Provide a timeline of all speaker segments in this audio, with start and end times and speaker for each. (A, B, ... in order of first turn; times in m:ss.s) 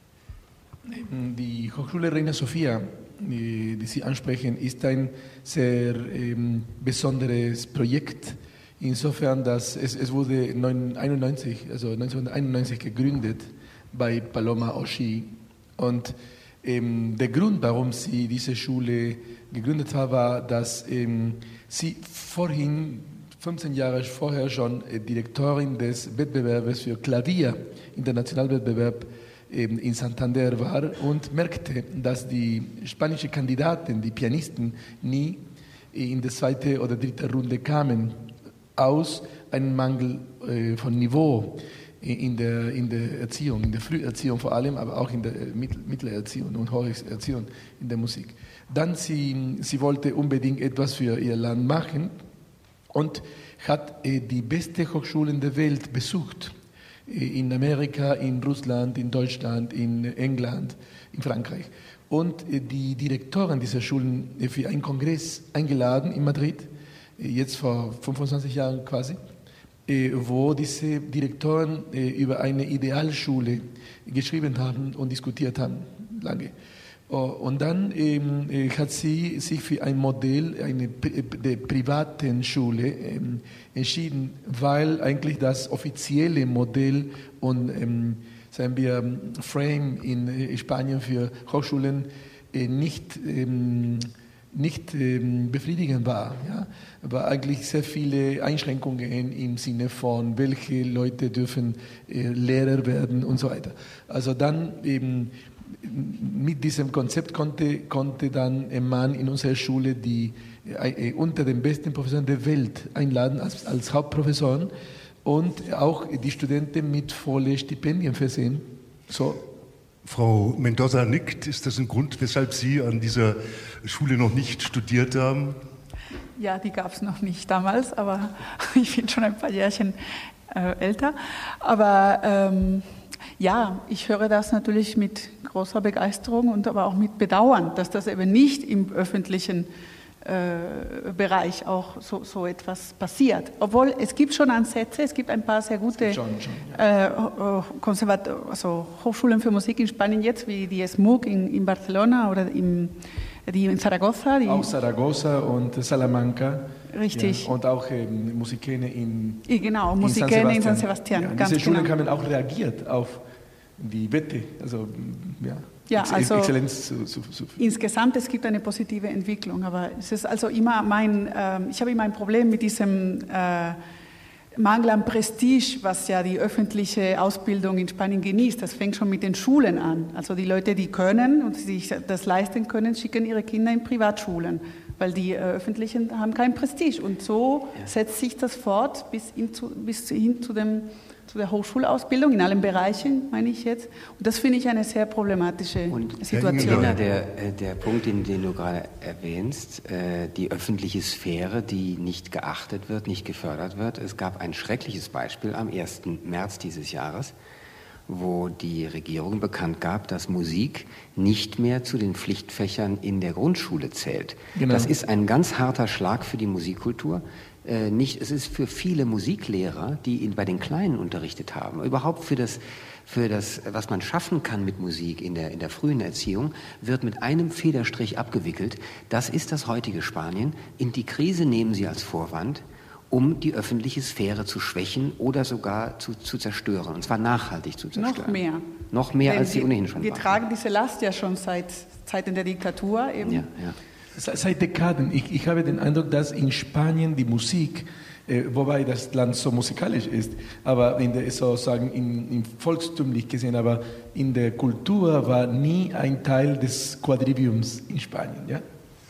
0:00.8-0:38.2 A
0:38.8-0:52.1 A
0:52.9-0:56.5 A
0:57.1-1:09.2 A
1:09.9-1:16.5 A
1:17.1-1:54.7 A
1:55.2-1:59.4 A
2:00.0-2:05.6 B
2:06.4-2:10.0 C
2:10.5-2:12.9 C
2:13.4-2:19.7 C
2:20.2-2:34.7 C
2:26.0-2:26.8 A
2:34.4-2:39.4 A
2:36.9-2:37.5 C
2:39.5-2:41.9 C
2:40.0-2:43.2 A
2:43.8-2:47.6 A
2:45.9-2:46.6 C
2:47.6-2:53.8 C
2:54.6-3:17.0 C
3:15.9-3:27.4 D
3:16.3-3:17.0 B
3:28.1-3:58.4 D
3:34.5-3:34.9 A
3:57.9-3:58.6 C
3:58.9-4:00.4 D
3:59.2-4:03.5 C
4:03.2-4:03.8 D
4:04.1-4:18.6 A